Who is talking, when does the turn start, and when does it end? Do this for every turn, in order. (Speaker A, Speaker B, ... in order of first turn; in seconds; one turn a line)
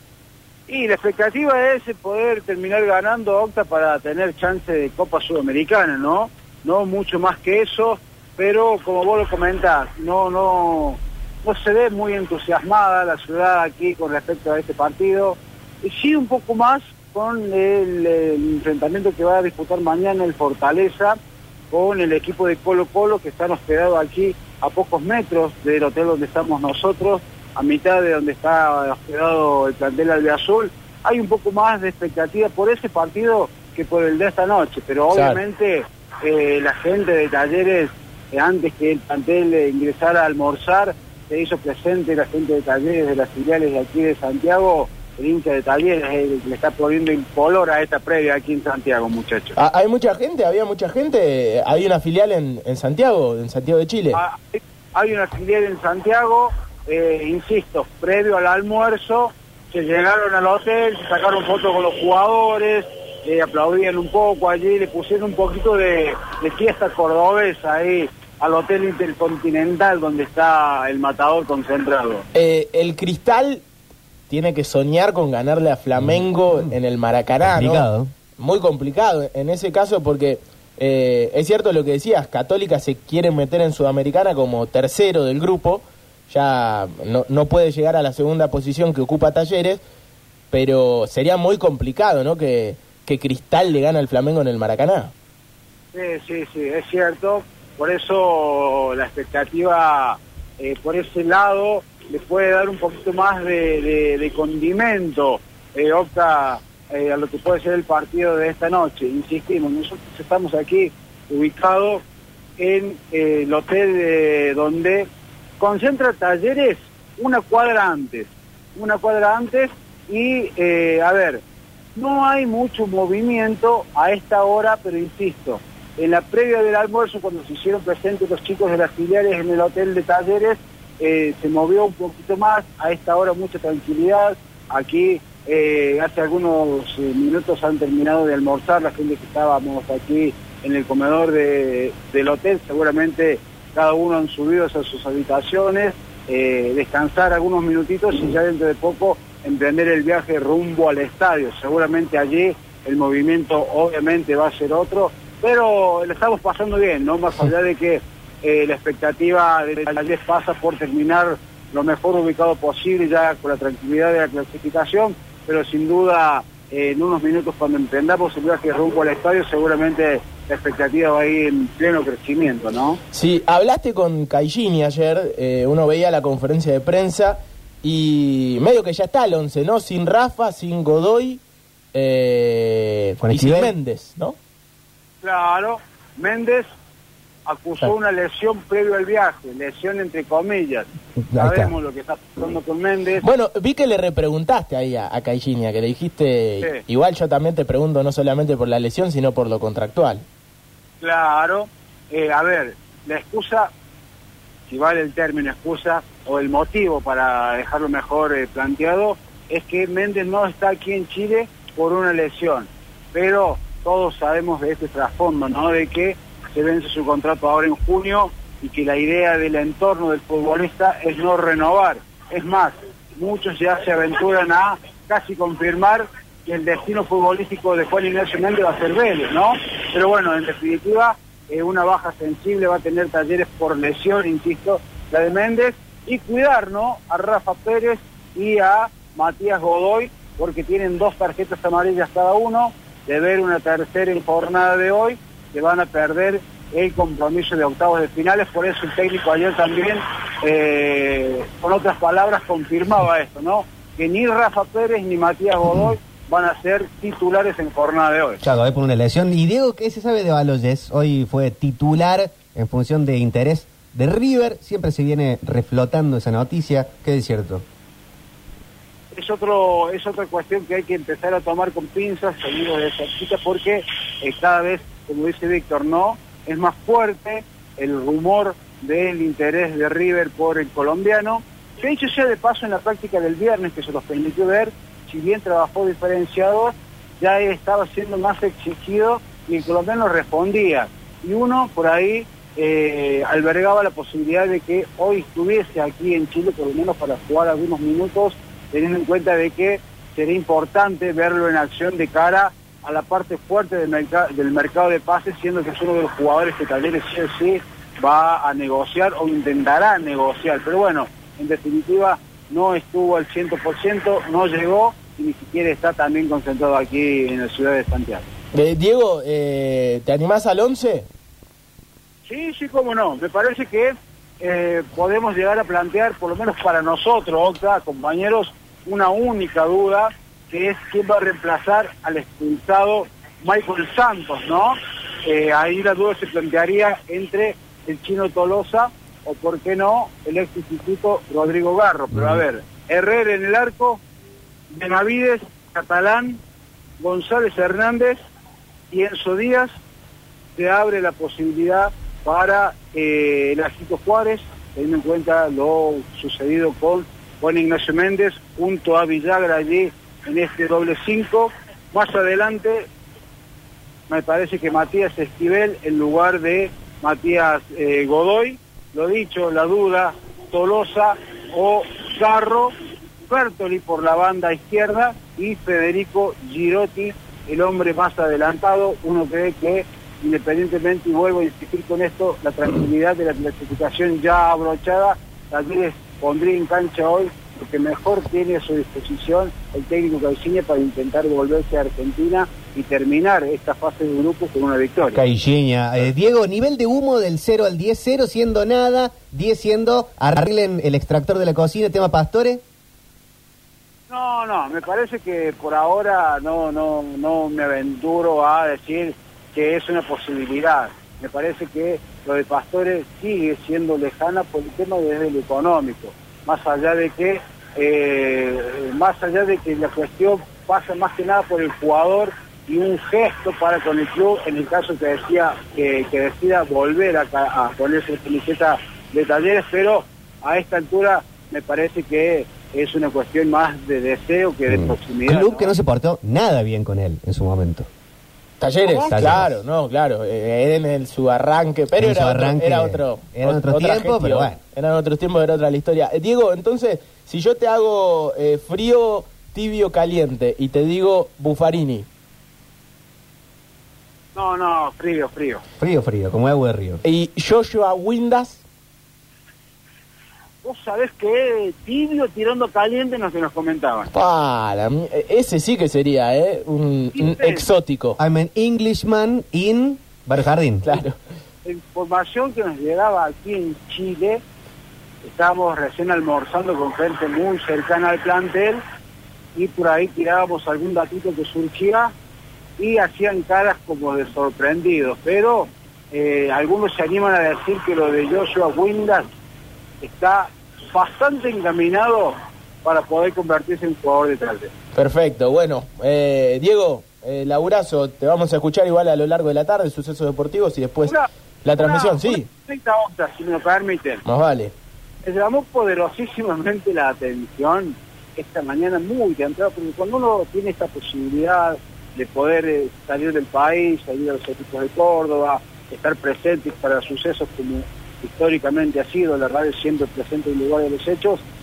Speaker A: 0.7-21.2
Speaker A: 21.7-49.5
Speaker B: 35.1-35.4
Speaker B: 49.6-54.2
Speaker A: 54.1-72.2
Speaker B: 72.3-73.6
Speaker B: 74.3-77.9
Speaker C: 76.0-76.7
Speaker C: 77.4-78.1
Speaker B: 78.4-89.8
Speaker B: 90.5-95.1
Speaker A: 95.9-112.0
Speaker A: 112.6-115.1
Speaker A: 115.6-121.4
Speaker A: 121.9-173.0
Speaker B: 173.1-181.4
Speaker B: 181.9-184.4
Speaker C: 183.2-183.7
Speaker A: 185.2-186.7
Speaker A: 187.4-193.2
Speaker C: 191.2-191.7
Speaker B: 193.2-200.2
Speaker A: 201.0-203.7
Speaker A: 204.7-258.4
Speaker C: 258.4-267.6
Speaker A: 269.1-318.2
Speaker B: 318.5-321.1
Speaker A: 322.3-344.0
Speaker A: 344.7-346.4
Speaker A: 347.0-348.2
Speaker A: 348.9-349.7
Speaker A: 350.6-362.9
Speaker A: 364.1-372.7
Speaker A: 373.3-395.2
Speaker C: 395.1-402.6
Speaker A: 404.1-435.7
Speaker C: 434.7-437.9
Speaker B: 438.6-452.1
Speaker C: 439.1-439.6
Speaker C: 442.0-444.6
Speaker A: 454.3-455.6
Speaker C: 455.8-457.0
Speaker B: 457.0-458.6
Speaker A: 460.6-464.1
Speaker B: 464.1-468.2
Speaker A: 467.1-467.6
Speaker C: 468.2-471.0
Speaker B: 470.8-471.1
Speaker A: 471.6-474.4
Speaker A: 475.2-478.8
Speaker A: 479.5-482.1
Speaker A: 482.8-489.3
Speaker A: 490.0-494.7
Speaker B: 494.9-502.5
Speaker A: 501.1-504.2
Speaker B: 504.2-504.7
Speaker A: 505.2-521.4